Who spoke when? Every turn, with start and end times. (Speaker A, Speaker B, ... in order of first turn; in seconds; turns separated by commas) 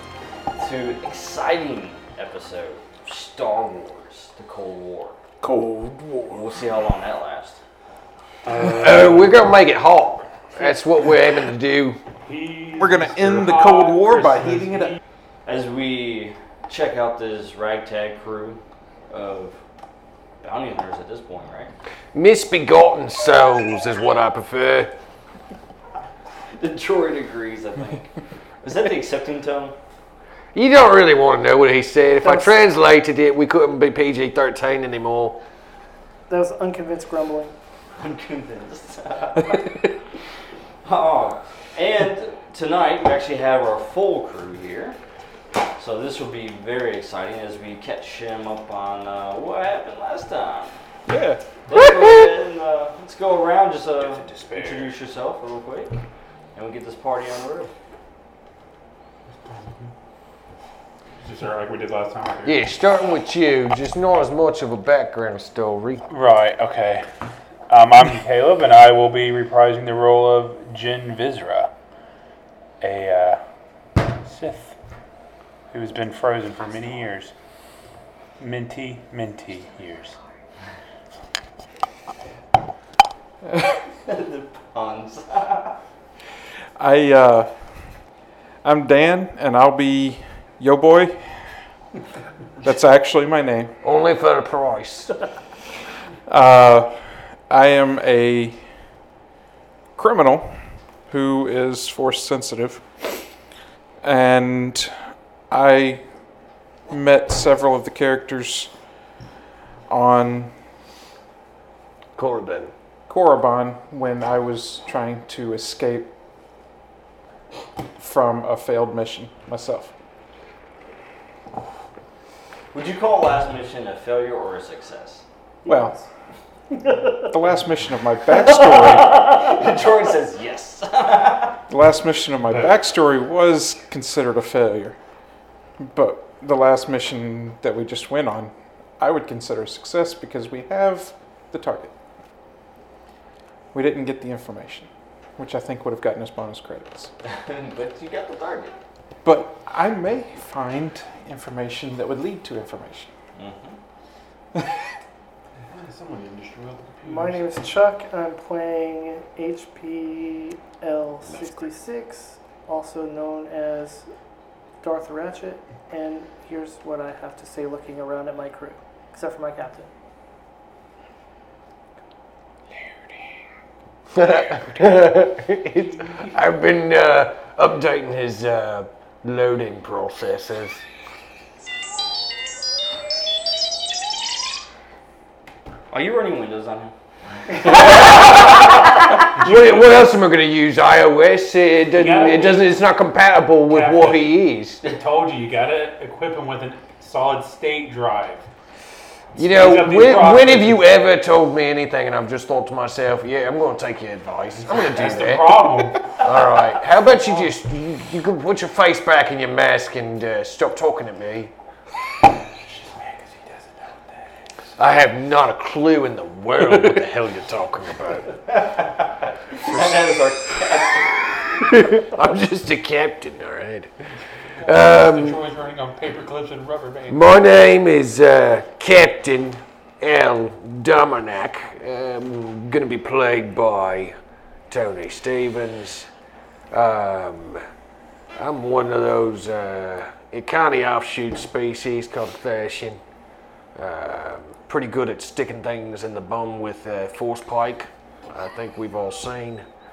Speaker A: 0.6-5.2, Speaker B: 5.4-6.0, Speaker A: 6.3-7.6, Speaker C: 8.4-9.2, Speaker D: 8.6-12.0, Speaker C: 12.2-14.9, Speaker B: 12.7-14.9, Speaker A: 15.4-19.6, Speaker A: 20.4-21.7, Speaker D: 22.1-24.9, Speaker A: 26.6-28.1, Speaker A: 28.6-29.7, Speaker D: 30.5-35.4, Speaker E: 32.2-32.6, Speaker E: 36.3-37.5, Speaker A: 38.0-39.7, Speaker A: 40.8-45.0, Speaker A: 45.8-50.8, Speaker B: 51.0-52.3, Speaker A: 51.7-56.0, Speaker C: 54.0-54.9, Speaker A: 56.5-57.7, Speaker C: 59.3-59.9, Speaker C: 61.2-62.6, Speaker D: 62.4-66.0, Speaker C: 66.1-67.0, Speaker C: 67.7-71.7, Speaker C: 72.8-73.4, Speaker C: 74.2-74.8, Speaker C: 75.7-77.3, Speaker C: 78.4-80.2, Speaker A: 84.0-85.8, Speaker B: 86.8-87.5, Speaker B: 88.6-91.3, Speaker B: 92.6-93.7, Speaker D: 93.8-95.1, Speaker B: 96.3-98.6, Speaker B: 100.0-100.5, Speaker B: 101.1-102.8, Speaker B: 104.0-104.9, Speaker B: 105.5-106.0, Speaker B: 106.9-108.7, Speaker B: 109.9-110.5, Speaker D: 112.2-112.7, Speaker B: 113.1-116.1, Speaker B: 118.0-119.9, Speaker A: 122.7-125.2, Speaker E: 125.6-126.0, Speaker B: 125.7-126.0, Speaker B: 127.2-129.4, Speaker A: 129.0-131.6, Speaker B: 131.7-134.9, Speaker B: 135.8-141.9, Speaker B: 143.7-147.1, Speaker A: 147.3-148.8, Speaker B: 149.2-153.1, Speaker A: 153.3-153.8, Speaker C: 155.6-157.4, Speaker E: 157.0-164.1, Speaker E: 164.8-169.9, Speaker D: 174.1-180.8, Speaker A: 185.9-186.9, Speaker D: 187.7-188.6, Speaker C: 189.3-190.1, Speaker D: 189.3-194.8, Speaker C: 191.9-192.8, Speaker C: 193.7-198.4, Speaker C: 199.3-201.0, Speaker D: 199.3-211.5, Speaker C: 204.6-206.2, Speaker C: 212.2-214.7, Speaker D: 214.8-218.3, Speaker A: 219.6-221.2, Speaker D: 221.6-223.9, Speaker C: 224.6-227.2, Speaker D: 224.6-225.4, Speaker D: 227.1-234.2, Speaker D: 234.7-236.1, Speaker D: 236.7-237.6, Speaker D: 238.3-243.0, Speaker D: 243.7-249.6